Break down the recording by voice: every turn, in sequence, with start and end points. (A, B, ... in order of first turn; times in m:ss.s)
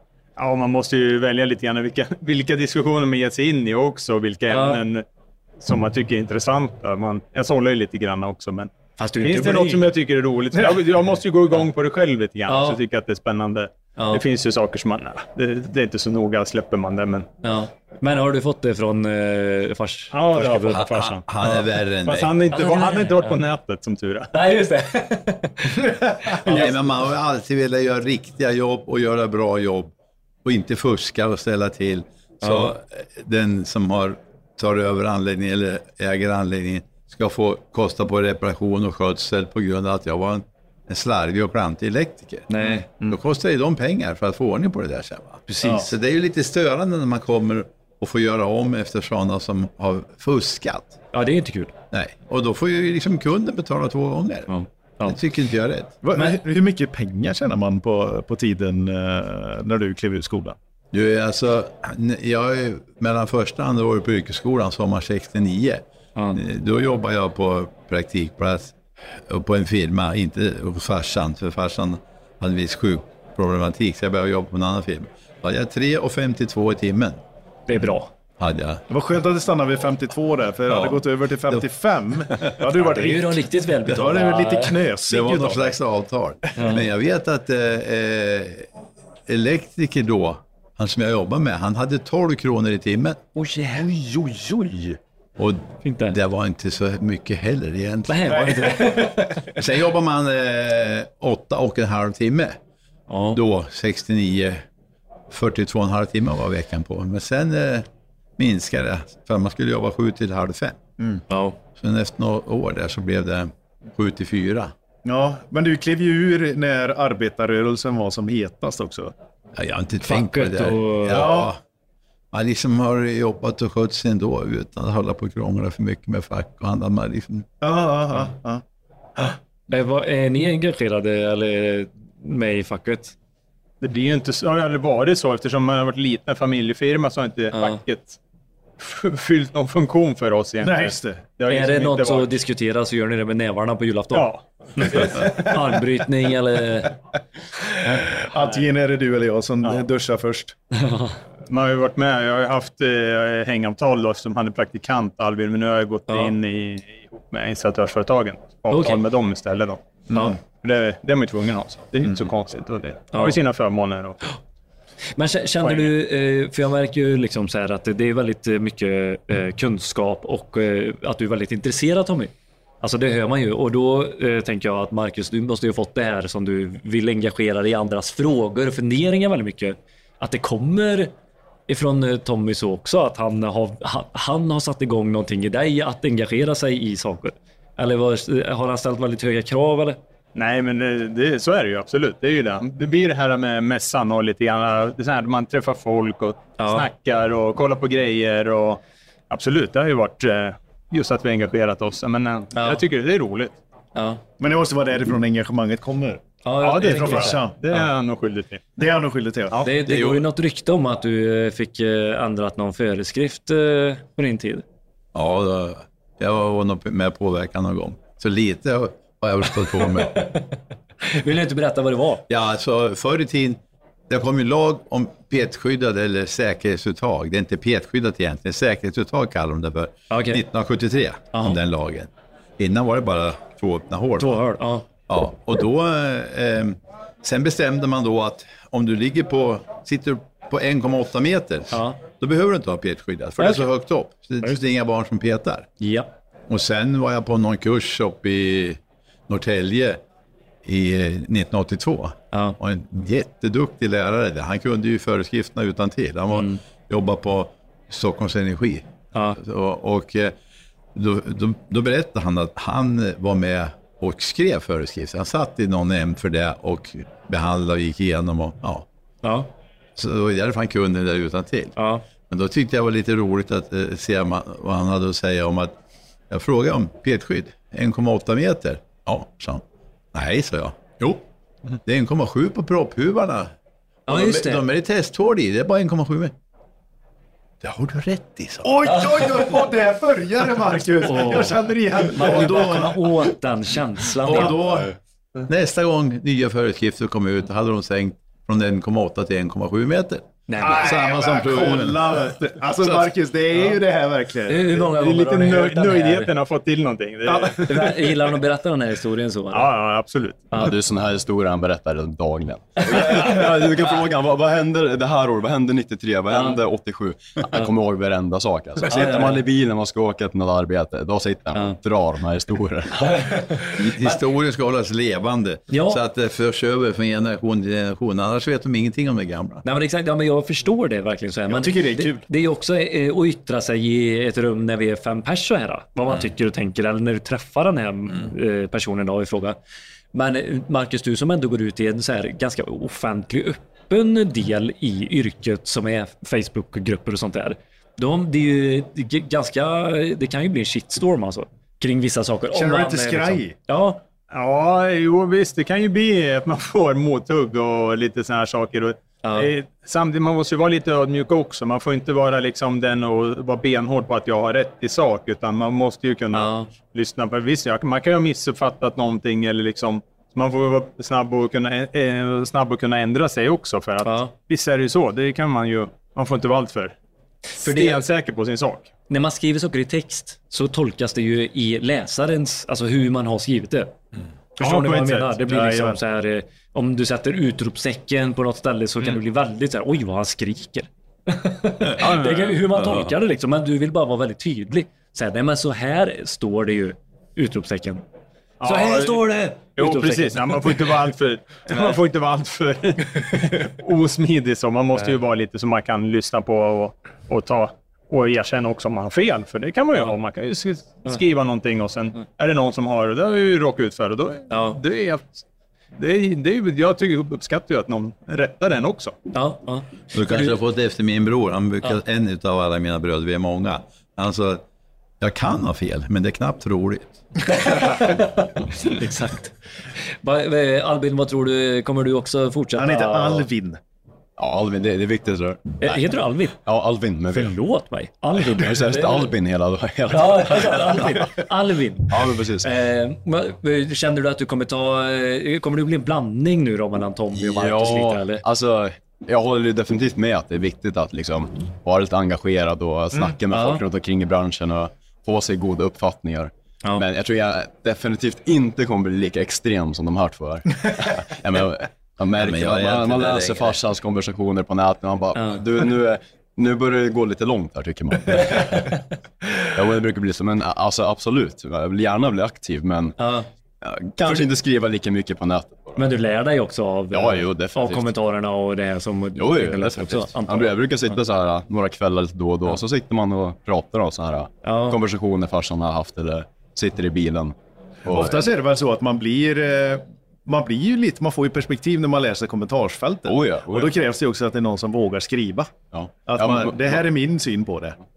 0:00.4-0:05.0 A
0:04.5-0:04.8 B
0:05.6-0:17.3 A
0:09.0-0:09.9 B
0:12.5-0:12.8 B
0:14.0-0:14.2 B
0:17.4-0:21.7 B
0:20.1-0:21.3 A
0:20.7-0:22.3 C
0:22.0-0:24.3 A
0:22.5-0:23.4 B
0:24.3-0:26.8 B
0:26.4-0:29.9 C
0:30.4-0:51.0 C
0:32.4-0:32.7 B
0:42.5-0:42.9 B
0:45.5-0:45.9 B
0:51.1-0:51.7 B
0:51.9-0:54.5 C
0:54.5-0:55.2 B
0:55.0-0:55.9 C
0:56.0-1:00.6 D
1:00.9-1:17.2 C
1:17.7-1:18.1 B
1:18.4-1:18.8 C
1:18.9-1:25.8 D
1:20.7-1:21.0 C
1:22.8-1:24.8 B
1:25.1-1:28.7 C
1:26.6-1:26.8 B
1:29.3-1:33.2 C
1:33.4-1:33.9 B
1:35.4-1:38.7 C
1:35.8-1:36.2 B
1:38.1-1:39.5 B
1:39.4-1:42.6 C
1:43.1-1:43.4 B
1:43.3-1:44.6 C
1:45.3-1:47.9 C
1:48.4-1:50.8 C
1:51.3-1:51.6 B
1:51.8-1:54.7 C
1:55.0-1:59.1 D
1:59.6-2:01.6 C
2:00.0-2:01.3 B
2:01.1-2:01.5 D
2:02.3-2:07.5 C
2:07.6-2:08.6 D
2:09.7-2:13.2 B
2:13.8-2:18.2 A
2:17.5-2:17.8 B
2:18.8-2:22.4 A
2:20.6-2:21.2 D
2:21.5-2:26.9 B
2:24.1-2:25.5 A
2:27.8-2:30.6 D
2:30.9-2:31.2 B
2:31.5-2:39.8 A
2:36.1-2:36.4 B
2:38.7-2:39.0 B
2:40.4-2:44.2 A
2:43.1-2:43.4 B
2:45.2-3:01.1 B
2:45.6-2:45.9 A
3:01.7-3:10.0 B
3:10.4-3:23.6 A
3:16.6-3:16.9 B
3:22.6-3:22.8 B
3:24.0-3:24.2 B
3:24.4-3:26.2 D
3:26.4-3:27.8 B
3:26.6-3:28.6 A
3:26.8-3:27.6 D
3:28.8-3:29.7 D
3:29.6-3:34.6 B
3:29.9-3:30.3 C
3:35.1-3:40.3 C
3:39.9-3:40.4 B
3:41.1-3:42.3 B
3:42.3-3:54.4 C
3:50.1-3:50.4 B
3:51.3-3:51.6 B
3:54.2-3:54.9 B
3:55.1-4:05.7 C
4:01.7-4:02.0 B
4:03.4-4:03.7 B
4:05.8-4:06.1 B
4:06.5-4:10.0 C
4:10.6-4:20.3 C
4:12.3-4:12.6 B
4:16.3-4:16.6 B
4:19.1-4:19.4 B
4:21.0-4:28.8 C
4:29.2-4:29.5 B
4:30.0-4:31.8 C
4:31.8-4:32.0 B
4:32.3-4:35.8 C
4:36.3-4:39.6 C
4:40.1-4:41.2 C
4:41.8-4:43.5 C
4:44.1-4:44.6 B
4:44.1-4:46.3 C
4:47.6-4:48.7 C
4:48.6-4:52.9 D
4:51.0-4:54.6 B
4:54.2-4:54.9 C
4:55.4-5:02.2 C
5:00.5-5:00.9 B
5:00.6-5:04.9 D
5:04.5-5:06.3 B
5:04.8-5:08.0 A
5:07.3-5:07.9 D
5:07.7-5:09.7 B
5:09.5-5:10.6 A
5:10.6-5:23.5 E
5:18.9-5:19.4 B
5:23.2-5:23.6 B
5:23.8-5:29.6 C
5:25.7-5:26.0 B
5:29.6-5:39.6 B
5:31.5-5:32.2 D
5:40.1-5:54.0 B
5:52.5-5:53.6 D
5:54.3-6:17.0 A
5:59.2-5:59.5 B
6:06.3-6:06.7 B
6:14.0-6:14.3 B
6:17.6-6:18.9 A
6:17.6-6:18.0 B
6:19.1-6:23.9 B
6:24.6-6:38.0 B
6:24.6-6:25.4 A
6:25.4-6:26.0 D
6:32.0-6:32.8 A
6:38.6-6:55.4 A
6:38.6-6:40.9 B
6:54.5-6:54.8 B
6:56.0-6:59.2 A
6:59.3-7:00.6 B
7:00.1-7:04.6 C
7:05.2-7:07.2 C
7:07.6-7:09.5 B
7:10.2-7:13.5 B
7:12.8-7:13.8 D
7:14.4-7:16.1 E
7:15.8-7:16.6 B
7:16.6-7:17.5 E
7:17.3-7:19.3 B
7:18.4-7:21.0 E
7:20.1-7:28.4 B
7:22.1-7:22.7 E
7:27.3-7:49.0 E
7:33.5-7:33.8 B
7:42.4-7:43.8 C
7:49.7-7:53.2 E
7:53.2-7:53.5 B
7:53.8-7:56.1 E
7:56.0-8:00.8 B
7:57.1-7:58.1 E
7:59.4-8:08.4 E
8:04.6-8:05.0 B
8:08.0-8:15.7 D
8:13.3-8:13.9 E
8:15.9-8:17.0 E
8:16.3-8:18.0 D